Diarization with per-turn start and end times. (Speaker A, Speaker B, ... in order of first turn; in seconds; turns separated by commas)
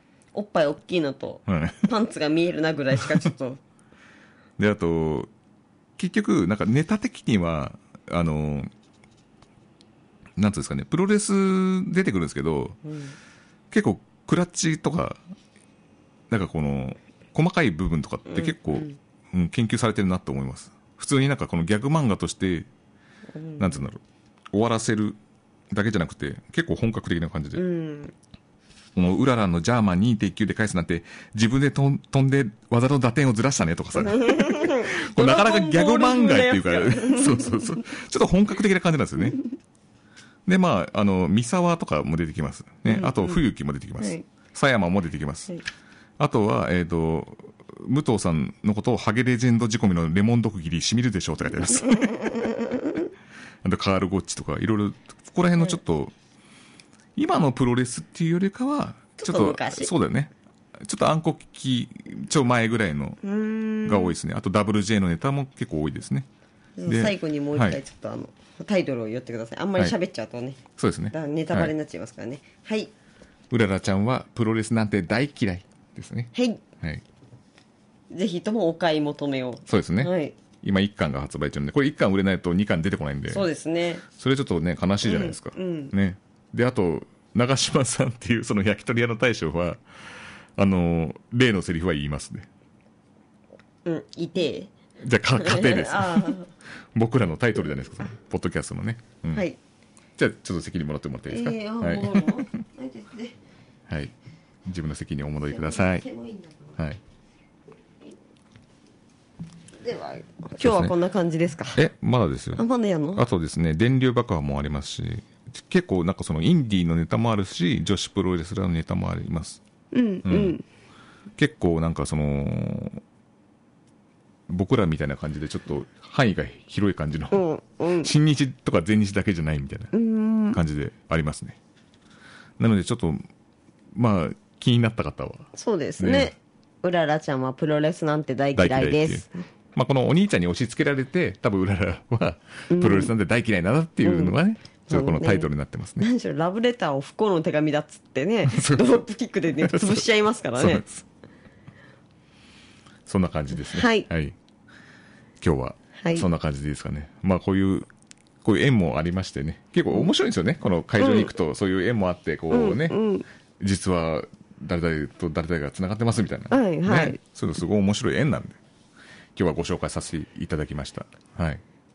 Speaker A: 0.3-3.6, Speaker B: 1.5-1.9, Speaker B: 4.6-5.3, Speaker B: 6.0-8.7, Speaker B: 10.4-12.8, Speaker A: 12.9-13.1, Speaker B: 13.7-15.2, Speaker B: 16.3-22.7, Speaker A: 18.3-19.0, Speaker A: 23.4-23.8, Speaker B: 23.6-24.0, Speaker B: 24.5-25.2, Speaker B: 25.7-27.6, Speaker A: 27.6-28.1, Speaker B: 28.9-39.4, Speaker A: 34.0-37.8, Speaker B: 40.5-45.6, Speaker A: 42.9-43.4, Speaker B: 46.2-52.2, Speaker A: 51.7-53.0, Speaker B: 53.6-56.1, Speaker B: 57.1-63.2, Speaker A: 59.2-59.9, Speaker A: 63.2-64.2, Speaker B: 63.8-66.3, Speaker A: 66.8-72.9, Speaker B: 66.9-67.8, Speaker B: 70.8-71.7, Speaker B: 73.5-77.0, Speaker A: 76.3-76.6, Speaker A: 78.1-80.3, Speaker B: 79.7-83.5, Speaker A: 83.3-84.0, Speaker B: 84.1-89.8, Speaker A: 85.0-85.9, Speaker B: 90.5-92.5, Speaker A: 93.8-94.7, Speaker B: 95.0-96.4, Speaker A: 95.4-96.5, Speaker B: 96.9-99.4, Speaker B: 100.2-102.5, Speaker A: 101.3-103.3, Speaker B: 104.6-106.0, Speaker A: 105.5-106.5, Speaker A: 109.8-111.8, Speaker B: 110.6-110.9, Speaker B: 111.7-112.6, Speaker A: 112.5-113.2, Speaker B: 113.2-119.6, Speaker A: 119.9-120.6, Speaker B: 120.2-120.6, Speaker B: 121.4-123.0, Speaker B: 124.5-127.4, Speaker A: 127.3-128.1, Speaker B: 128.0-129.9, Speaker A: 129.9-130.6, Speaker B: 130.5-131.6, Speaker B: 132.6-133.2, Speaker B: 133.9-136.3, Speaker A: 135.5-139.4, Speaker B: 138.6-146.0, Speaker A: 142.7-143.1, Speaker A: 144.0-144.3, Speaker A: 144.9-145.5, Speaker A: 146.0-150.8, Speaker B: 148.5-149.0, Speaker B: 149.6-150.0, Speaker B: 150.6-151.0, Speaker B: 153.1-154.3, Speaker A: 153.6-154.1, Speaker B: 155.4-157.9, Speaker A: 156.0-156.3, Speaker B: 158.4-162.9, Speaker A: 161.0-161.3, Speaker A: 162.5-163.2, Speaker B: 163.6-168.6, Speaker A: 166.5-167.2, Speaker B: 169.3-171.6